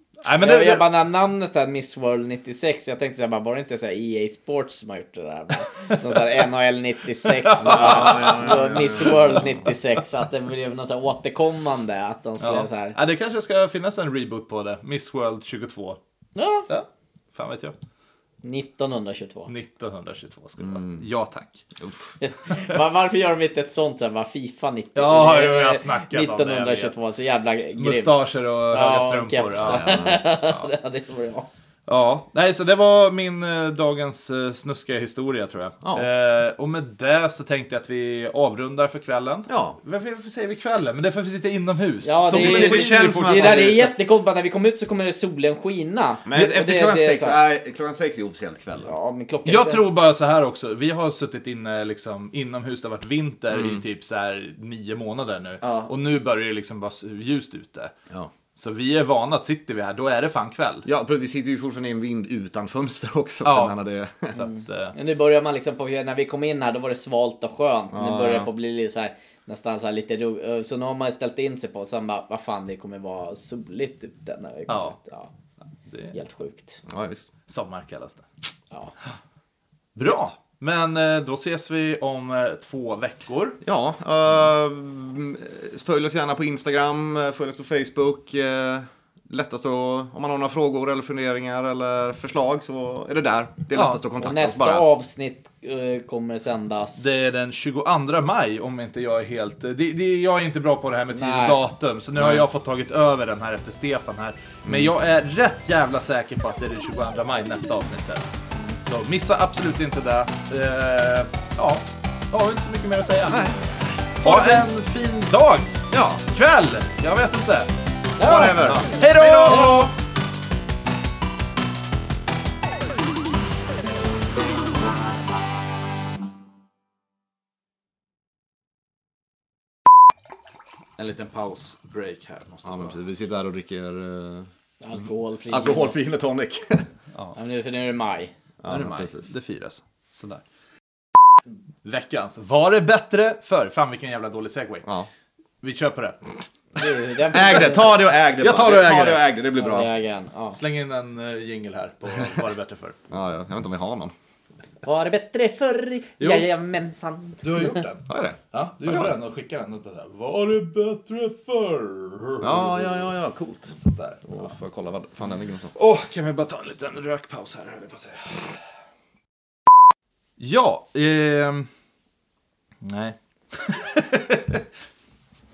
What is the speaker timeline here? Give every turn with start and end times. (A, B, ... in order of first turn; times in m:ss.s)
0:00.2-0:00.8 A
0:00.4-0:13.0 B
0:07.2-0:09.4 A
0:07.6-0:09.5 C
0:12.4-0:16.0 A
0:16.4-0:16.7 B
0:16.7-0:17.8 A
0:18.4-0:19.5 B
0:19.5-0:21.7 A
0:20.6-0:21.0 C
0:21.8-0:22.1 C
0:22.2-0:28.2 B
0:25.0-0:26.9 A
0:27.8-0:30.7 A
0:28.7-0:31.6 B
0:29.6-0:30.2 C
0:31.9-0:43.7 A
0:35.8-0:36.1 C
0:39.5-0:39.8 C
0:42.0-0:47.4 B
0:42.3-0:43.9 C
0:46.3-0:48.9 C
0:48.8-0:49.8 B
0:49.5-0:57.9 A
0:53.5-0:53.8 C
0:55.6-0:55.9 B
0:58.6-1:00.8 A
1:00.8-1:04.4 C
1:03.4-1:03.7 A
1:04.3-1:05.0 A
1:04.4-1:15.3 B
1:07.9-1:08.5 C
1:14.7-1:15.0 A
1:15.9-1:16.2 A
1:16.1-1:16.8 B
1:16.9-1:17.3 C
1:17.5-1:18.3 A
1:20.0-1:23.6 A
1:20.1-1:20.3 C
1:23.6-1:34.9 C
1:33.7-1:34.0 A
1:34.2-1:37.0 B
1:37.0-1:53.5 A
1:41.1-1:41.6 B
1:42.2-1:42.5 C
1:44.6-1:44.9 C
1:53.3-1:53.6 C
1:54.2-1:54.7 C
1:54.2-1:55.8 A
1:55.9-1:56.2 C
1:56.3-1:57.7 A
1:58.2-1:58.9 B
1:58.2-1:59.9 C
1:58.6-1:59.9 A
1:59.5-1:59.8 B
2:11.0-2:13.0 A
2:12.6-2:14.5 C
2:14.8-2:16.0 B
2:15.5-2:16.9 C
2:17.4-2:18.3 B
2:18.6-2:19.3 C
2:18.7-2:20.4 A
2:21.8-2:24.9 A
2:25.6-2:26.3 A
2:26.8-2:27.9 B
2:27.3-2:29.9 C
2:28.4-2:29.3 A
2:29.6-2:30.6 B
2:30.5-2:33.0 A
2:33.1-2:34.1 C
2:34.8-2:37.8 B
2:36.2-2:36.5 A
2:37.4-2:43.1 A
2:38.1-2:39.1 C
2:42.4-2:45.8 C
2:43.7-2:44.5 A
2:45.7-2:48.6 A
2:50.4-2:51.7 A
2:52.8-2:54.6 A